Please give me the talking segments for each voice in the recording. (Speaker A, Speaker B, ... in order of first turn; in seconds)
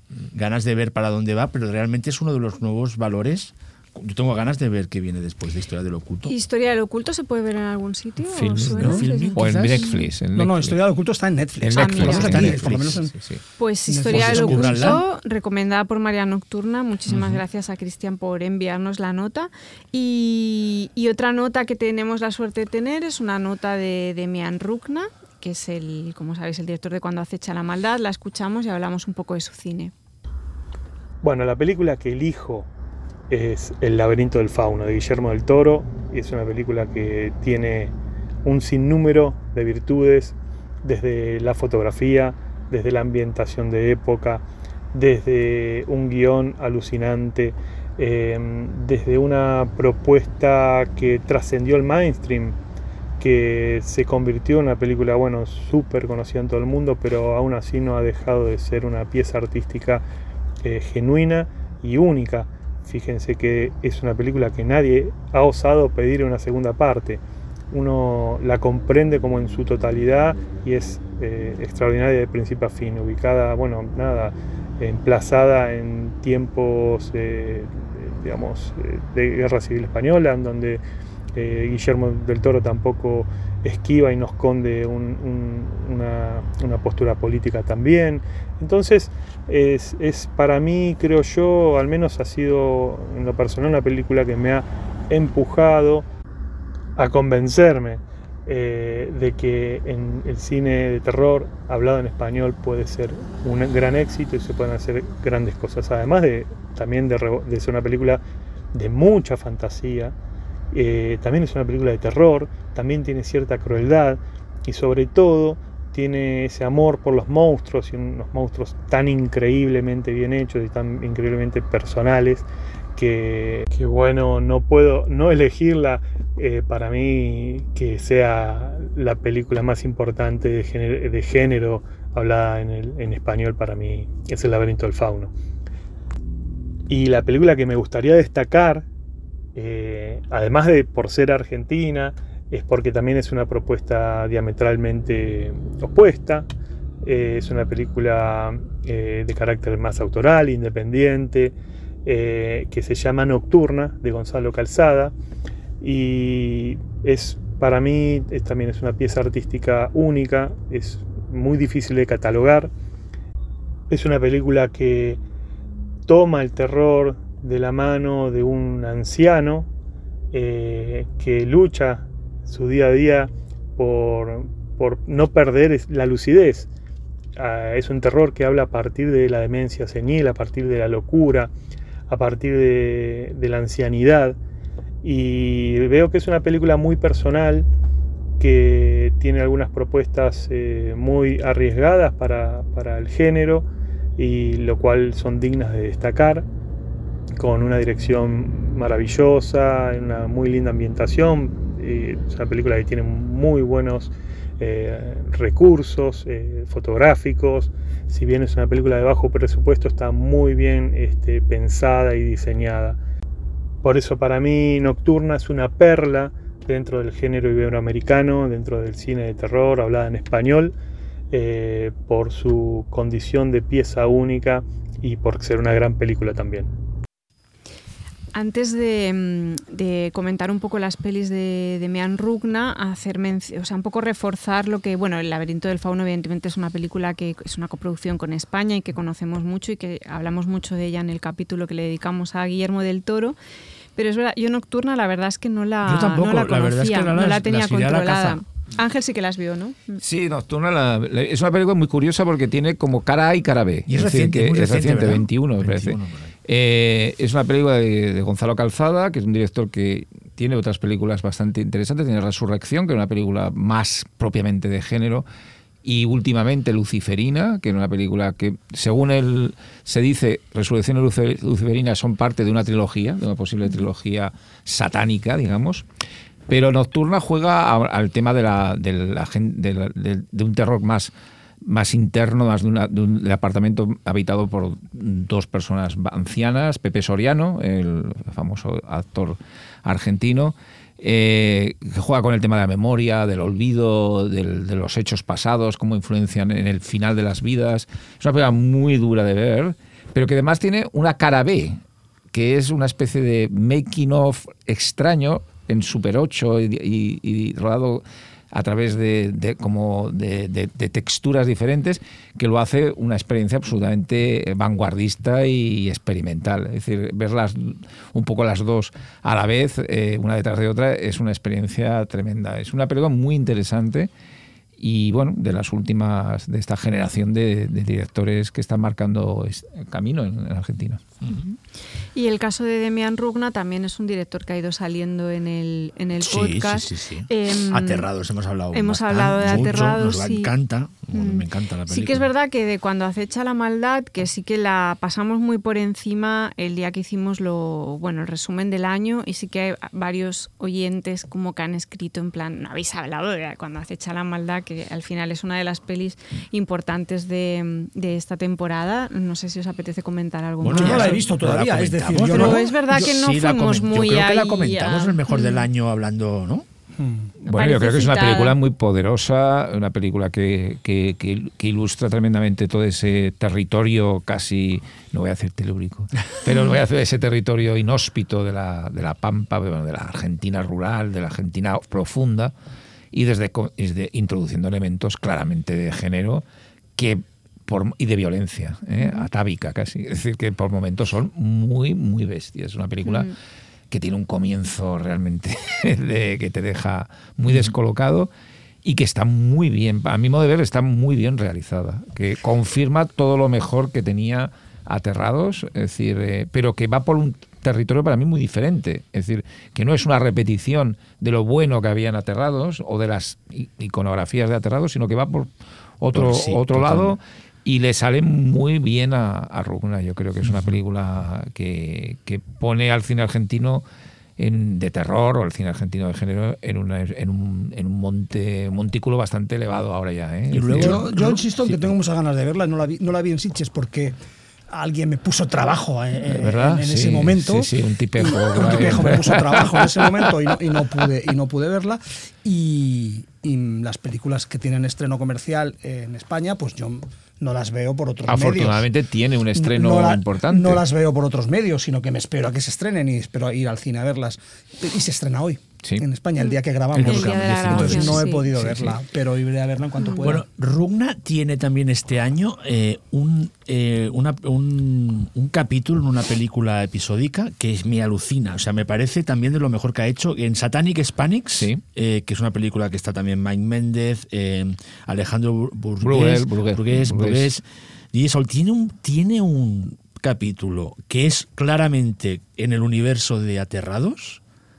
Speaker A: 0.3-6.3, 8.6-9.9, 11.8-12.9, 14.1-15.0, 245.8-248.4, 253.9-256.3, 336.2-342.3, 360.6-366.7, 416.1-417.2, 430.5-431.9, 456.9-458.9, 460.2-484.4
Speaker B: 6.3-10.0, 11.7-12.4, 13.6-29.9, 228.3-243.4, 244.0-250.0, 331.3-331.6, 332.1-338.1, 338.7-340.5, 341.1-361.2, 362.3-365.7, 367.4-368.6, 389.0-389.3, 393.1-393.3, 456.4-458.5, 460.0-460.4
Speaker C: 8.3-10.8, 11.6-13.4, 17.1-17.4, 250.0-265.2, 265.9-275.9, 276.5-281.1, 281.6-301.8, 302.3-324.1, 324.8-331.0, 367.5-382.5, 383.1-386.4, 387.0-393.3, 393.9-398.3, 398.8-415.5, 416.0-423.8, 424.4-431.0, 436.3-440.3, 448.3-450.8, 476.0-477.5
Speaker D: 10.3-13.1, 13.8-15.0, 360.7-362.6, 367.0-367.3, 430.7-434.2, 434.7-448.9, 449.6-460.4
Speaker E: 31.2-32.7, 33.3-52.6, 53.2-60.0, 60.6-80.8, 81.3-96.1, 97.0-108.2, 108.7-110.2, 110.7-135.3, 136.9-138.9, 139.6-146.5, 147.0-155.1, 155.8-162.7, 163.9-165.2, 166.1-169.7, 170.3-176.7, 177.4-181.5, 182.1-184.4, 185.0-187.7, 188.4-196.5, 197.4-213.0, 213.8-220.8, 221.3-226.7